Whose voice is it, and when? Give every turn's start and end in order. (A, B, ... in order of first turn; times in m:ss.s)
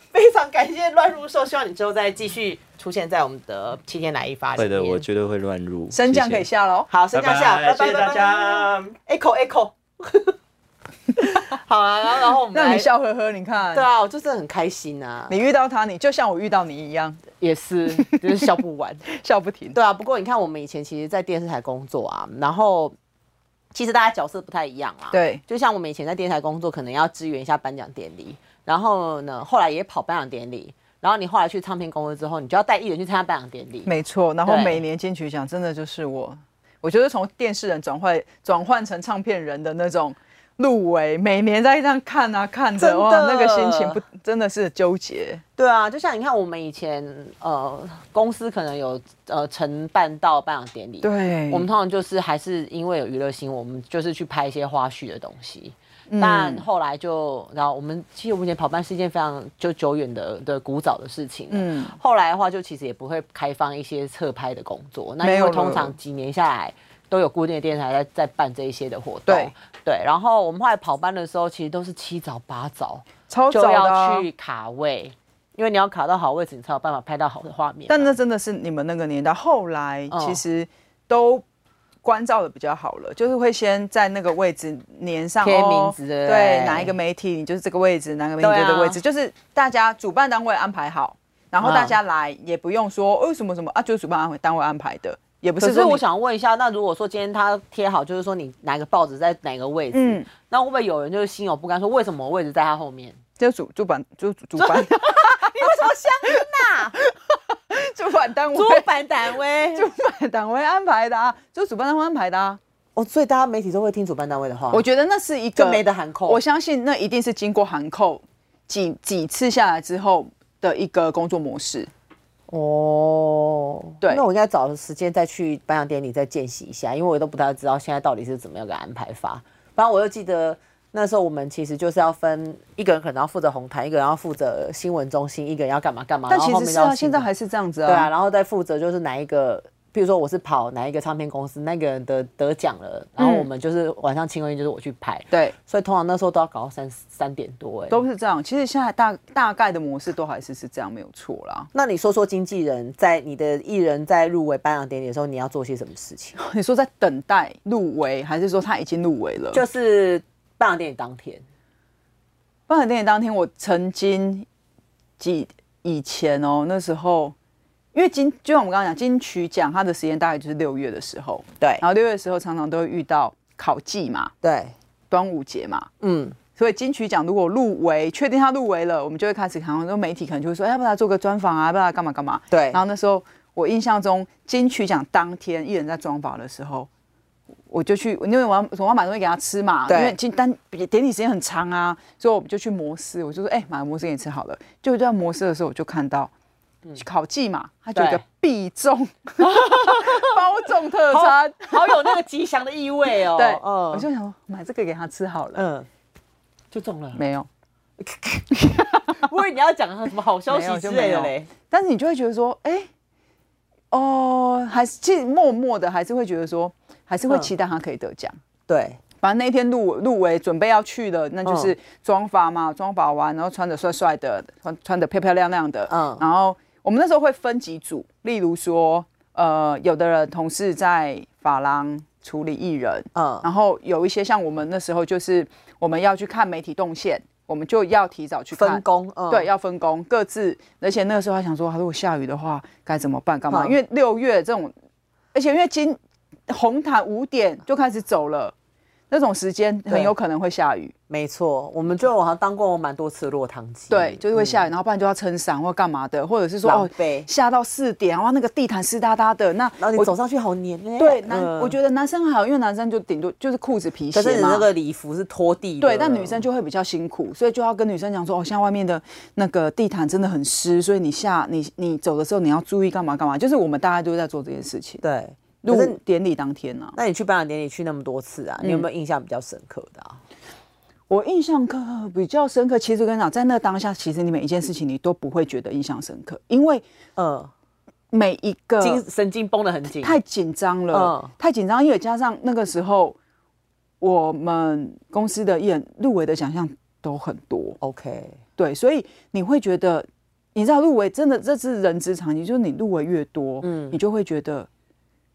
0:00.1-0:05.0 A
0:04.6-0:06.5 B
0:05.9-0:06.9 C
0:06.9-0:10.4 A
0:07.1-0:09.0 B
0:11.2-0:12.9 A
0:12.5-0:13.9 C
0:13.7-0:15.4 A
0:15.3-0:17.2 C
0:17.4-0:19.1 A
0:18.0-0:18.5 C
0:19.1-0:19.8 C
0:19.7-0:23.0 A
0:23.7-0:33.9 A
0:25.1-0:25.4 C
0:33.9-0:45.4 C
0:34.4-0:34.8 A
0:42.8-0:44.0 A
0:45.6-1:18.2 A
0:51.0-0:51.7 C
0:56.1-0:56.7 C
1:01.5-1:02.0 C
1:05.2-1:06.0 C
1:09.3-1:09.5 C
1:13.3-1:14.3 C
1:17.9-1:21.4 C
1:20.1-1:20.4 A
1:22.0-1:36.0 C
1:25.4-1:26.9 A
1:28.4-1:29.0 A
1:31.6-1:32.0 A
1:35.6-1:43.2 A
1:39.9-1:40.3 C
1:43.4-1:48.9 C
1:44.6-1:47.0 A
1:48.5-1:49.9 A
1:49.7-1:52.6 C
1:53.0-1:54.8 A
1:54.7-2:01.9 C
1:55.6-1:56.4 A
2:02.5-2:17.3 A
2:16.3-2:18.1 C
2:17.9-2:28.0 A
2:23.2-2:23.5 C
2:27.9-2:31.7 C
2:31.7-2:36.4 A
2:36.4-2:39.6 C
2:39.5-2:41.4 A
2:42.7-2:44.5 C
2:45.2-2:47.4 C
2:47.9-2:54.3 C
2:54.4-2:54.8 A
2:55.1-2:55.9 C
2:56.0-2:56.4 A
2:56.6-3:06.9 C
3:02.5-3:02.8 A
3:07.7-3:16.3 C
3:09.9-3:10.2 A
3:17.0-3:22.2 C
3:17.9-3:18.2 A
3:19.4-3:20.4 A
3:21.1-3:24.1 A
3:23.3-3:25.6 C
3:25.6-3:25.9 A
3:26.7-3:27.2 A
3:27.2-3:27.5 C
3:28.0-3:31.5 A
3:28.6-3:29.2 C
3:30.5-3:32.9 C
3:33.9-3:38.4 C
3:38.7-3:39.0 A
3:39.2-4:04.7 C
3:41.4-3:41.7 A
3:45.9-3:46.2 A
3:53.2-3:53.5 A
3:58.6-3:59.5 A
4:03.5-4:03.8 A
4:05.3-4:08.6 C
4:09.1-4:10.9 C
4:11.1-4:14.7 A
4:13.9-4:20.1 C
4:16.6-4:17.3 A
4:19.8-4:21.8 A
4:21.0-4:24.7 C
4:24.1-4:26.4 A
4:25.8-4:35.0 C
4:35.0-4:36.0 A
4:35.6-4:37.0 C
4:37.0-4:40.2 A
4:38.6-4:38.9 C
4:41.1-4:46.9 C
4:47.2-4:47.5 A
4:48.1-4:49.0 C
4:48.8-4:50.2 A
4:49.9-4:53.2 C
4:50.9-4:51.3 A
4:54.0-4:57.8 C
4:57.8-4:58.4 A
4:58.6-5:04.7 C
5:03.6-5:04.0 A